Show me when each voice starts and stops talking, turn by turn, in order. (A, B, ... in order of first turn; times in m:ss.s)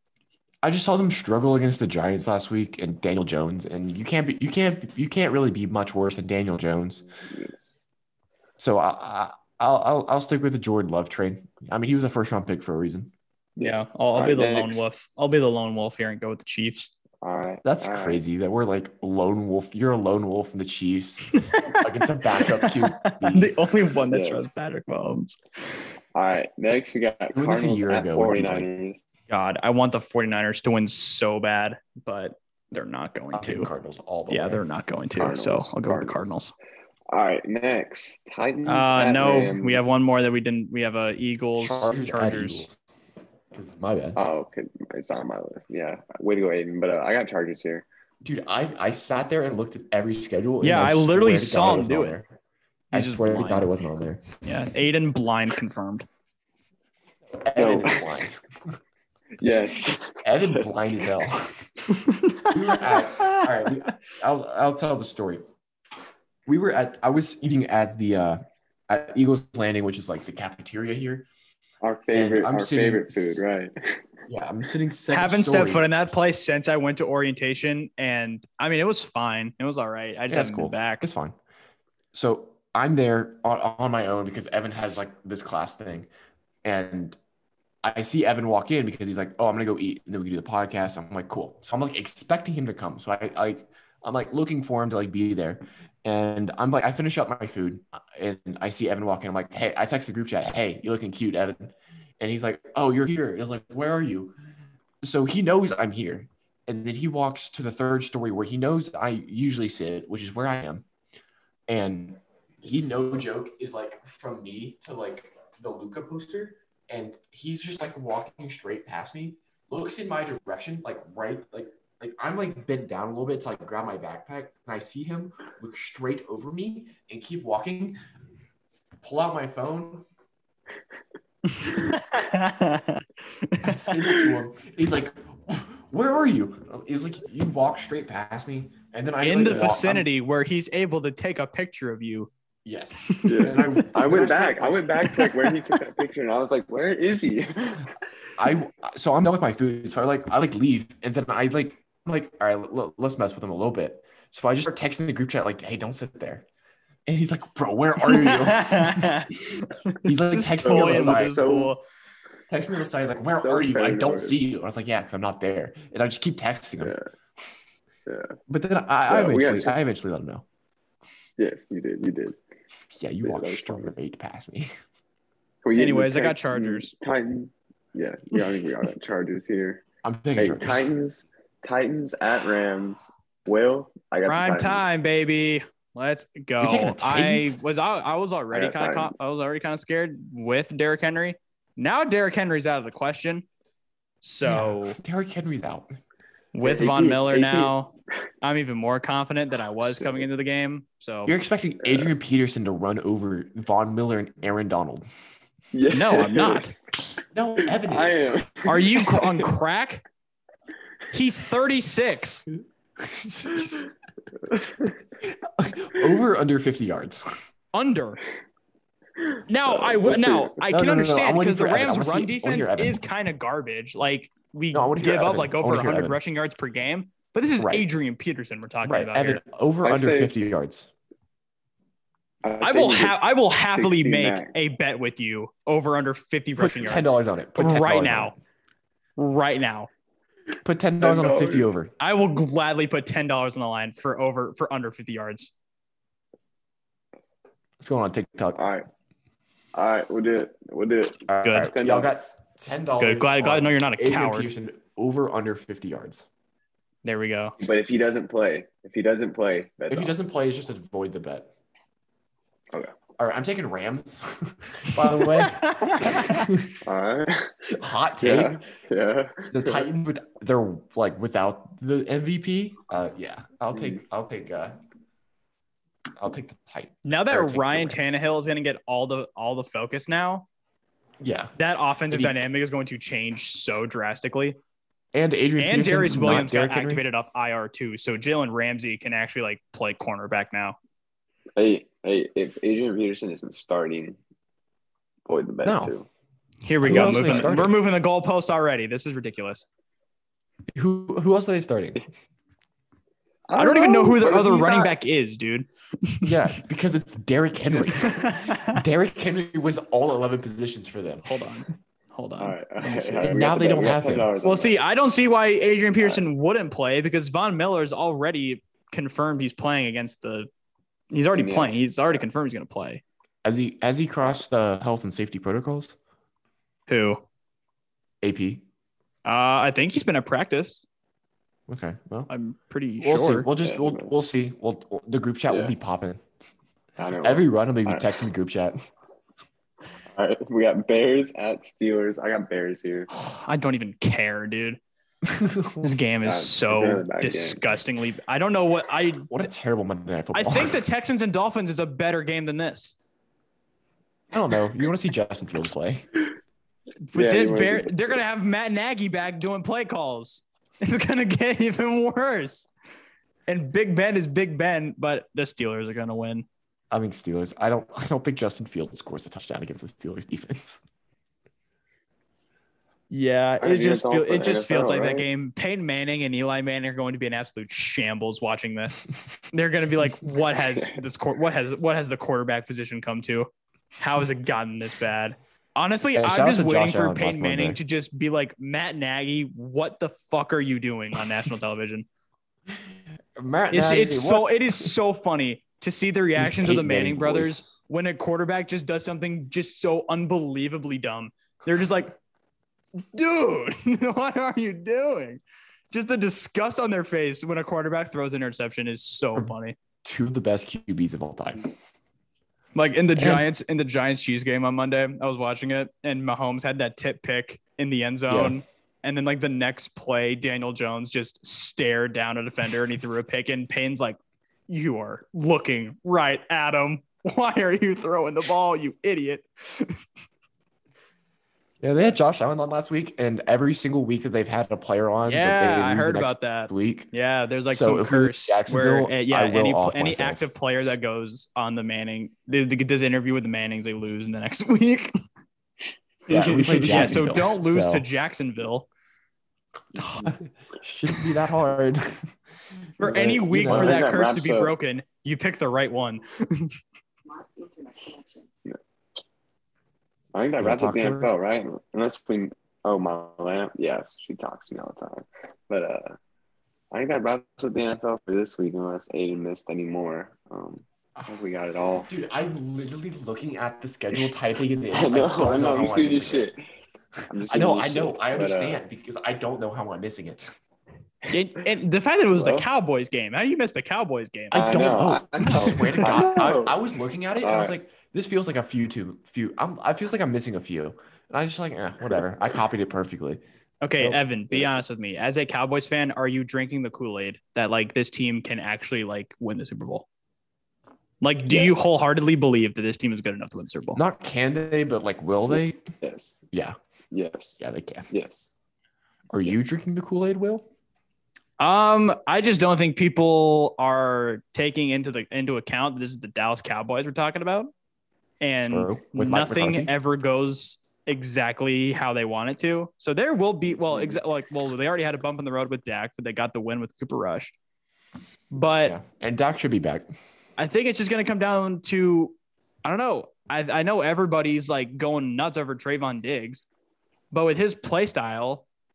0:00.6-0:07.0 A
0:07.2-0:07.7 B
0:08.6-0:13.1 A
0:13.6-0:14.9 B
0:13.6-0:16.9 C
0:17.2-0:18.2 B
0:17.6-0:23.5 A
0:21.3-0:25.4 C
0:24.1-0:24.5 B
0:26.1-0:29.0 B
0:27.3-0:28.7 A
0:29.3-0:33.7 C
0:33.3-0:34.6 A
0:34.3-0:36.5 C
0:35.2-0:36.4 B
0:37.1-0:40.0 B
0:38.6-0:42.7 C
0:41.6-0:42.7 A
0:43.5-0:44.2 A
0:44.1-0:47.8 B
0:48.2-0:52.3 A
0:50.6-0:52.2 C
0:52.9-0:53.7 C
0:52.9-0:54.2 A
0:54.4-0:56.1 C
0:57.4-0:58.4 A
0:57.6-0:58.1 B
0:59.4-1:00.7 B
1:00.2-1:01.6 A
1:02.3-1:03.4 C
1:02.4-1:05.4 A
1:06.5-1:11.3 A
1:11.8-1:14.0 B
1:12.1-1:13.4 A
1:14.3-1:15.9 A
1:15.1-1:21.0 C
1:20.3-1:21.3 A
1:22.1-1:26.1 A
1:26.6-1:27.2 A
1:27.8-1:44.3 A
1:45.0-1:50.8 A
1:51.7-2:08.0 A
2:09.0-2:10.0 A
2:11.5-2:14.3 C
2:13.6-2:20.1 A
2:19.2-2:22.3 C
2:22.6-2:25.2 A
2:23.1-2:23.4 C
2:23.2-2:27.9 B
2:25.0-2:25.5 C
2:28.4-2:36.4 A
2:37.0-2:41.4 A
2:38.0-2:41.8 C
2:40.6-2:41.7 B
2:42.5-2:46.9 A
2:43.4-2:44.4 B
2:46.8-2:47.0 B
2:48.0-2:48.4 B
2:48.5-2:50.4 A
2:49.1-2:49.8 B
2:51.4-2:52.4 B
2:52.9-2:54.7 A
2:53.2-2:53.9 B
2:55.6-2:59.8 B
2:55.8-2:56.9 C
3:00.0-3:00.9 A
3:00.4-3:04.8 B
3:04.2-3:13.4 C
3:06.6-3:07.6 A
3:08.5-3:09.2 B
3:14.2-3:15.0 C
3:14.4-3:15.9 A
3:16.5-3:21.3 C
3:16.6-3:17.7 B
3:21.2-3:25.0 A
3:21.8-3:22.1 B
3:25.7-3:26.8 B
3:25.9-3:26.7 C
3:27.3-3:28.4 A
3:27.6-3:29.5 B
3:28.6-3:30.0 C
3:31.1-3:32.5 C
3:33.0-3:33.9 A
3:34.4-3:35.0 B
3:35.3-3:37.3 A
3:37.7-3:38.2 C
3:39.2-3:40.6 B
3:39.5-3:49.4 C
3:40.7-3:43.0 A
3:44.7-3:46.2 A
3:47.6-3:47.9 A
3:48.8-3:50.9 A
3:49.8-3:50.3 B
3:52.4-3:54.7 B
3:52.6-3:58.3 C
3:56.6-3:58.3 A
3:59.2-3:59.9 C
4:00.6-4:01.9 A
4:01.0-4:01.7 B
4:02.0-4:05.5 C
4:07.8-4:08.6 A
4:08.5-4:08.8 B
4:09.7-4:12.2 B
4:11.3-4:16.2 A
4:11.4-4:11.7 C
4:13.0-4:14.5 C
4:17.0-4:17.6 C
4:17.6-4:20.1 B
4:19.9-4:21.5 A
4:23.2-4:26.8 A
4:25.1-4:26.5 C
4:26.8-4:27.5 B
4:27.7-4:28.6 A
4:28.2-4:29.8 B
4:29.5-4:34.8 A
4:36.2-4:38.1 A
4:37.0-4:40.4 C
4:41.2-4:41.5 A
4:41.6-4:44.6 C
4:42.1-4:42.4 A
4:45.1-4:47.0 A
4:45.6-4:50.8 C
4:51.6-4:54.2 B
4:55.2-4:56.1 B
4:55.6-4:55.9 A
4:56.6-4:59.7 C
4:56.8-4:57.6 B
4:56.8-4:57.8 A
5:00.7-5:02.0 A
5:03.5-5:05.0 B
5:03.6-5:06.3 C
5:06.2-5:11.6 A
5:07.9-5:08.8 C
5:11.2-5:13.3 C
5:12.4-5:14.8 B
5:13.2-5:14.3 A
5:14.4-5:20.5 C
5:16.0-5:16.2 B
5:21.1-5:23.0 C
5:21.3-5:21.8 B
5:23.4-5:25.9 A
5:26.9-5:27.2 C
5:28.2-5:28.6 A
5:29.2-5:30.8 C
5:31.7-5:32.3 A
5:32.3-5:33.5 C
5:33.0-5:36.2 A
5:33.6-5:34.1 B
5:37.0-5:38.2 B
5:37.2-5:38.8 A
5:40.1-5:43.1 B
5:43.1-5:44.8 C
5:45.2-5:45.9 A
5:45.8-5:49.3 C
5:46.2-5:47.6 B
5:49.3-5:50.8 A
5:50.3-5:52.9 C
5:54.3-5:56.1 A
5:57.1-6:02.7 C
5:57.1-5:58.2 B
6:03.5-6:06.4 C
6:06.9-6:10.8 A
6:13.1-6:32.0 C
6:13.6-6:15.3 B
6:20.6-6:21.0 B
6:26.2-6:27.8 A
6:33.4-6:34.9 A
6:33.7-6:42.2 C
6:36.4-6:37.6 A
6:43.1-6:49.8 C
6:50.0-6:51.7 A
6:52.7-7:04.2 C
6:53.2-6:53.4 A
6:58.3-6:58.6 A
7:04.7-7:10.0 C
7:11.8-7:17.1 A
7:15.3-7:25.1 C
7:17.7-7:20.5 A
7:26.3-7:28.1 A
7:26.3-7:27.4 B
7:26.6-7:28.9 C
7:30.0-7:32.3 A
7:33.0-7:36.7 C
7:33.0-7:34.7 B
7:33.1-7:34.0 A
7:38.2-7:38.8 B
7:40.3-7:46.2 B
7:40.6-7:41.3 A
7:46.9-7:52.1 B
7:52.0-7:56.5 A
7:54.9-7:56.6 B
7:57.3-7:58.8 B
7:57.4-8:00.5 A
8:01.3-8:04.7 C
8:02.3-8:02.7 B
8:04.5-8:06.8 B
8:04.5-8:13.4 A
8:05.5-8:06.4 C
8:07.4-8:07.8 B
8:13.8-8:20.0 C
8:21.2-8:24.0 C
8:21.5-8:21.8 B
8:23.9-8:25.8 A
8:26.0-8:26.4 B
8:26.5-8:26.8 A
8:27.1-8:28.5 B
8:27.6-8:28.1 A
8:29.3-8:30.6 A
8:31.6-8:37.7 C
8:38.4-8:47.5 C
8:38.7-8:39.9 A
8:48.5-8:49.0 C
8:48.8-8:50.0 A
8:50.6-8:56.6 C
8:57.3-8:58.6 C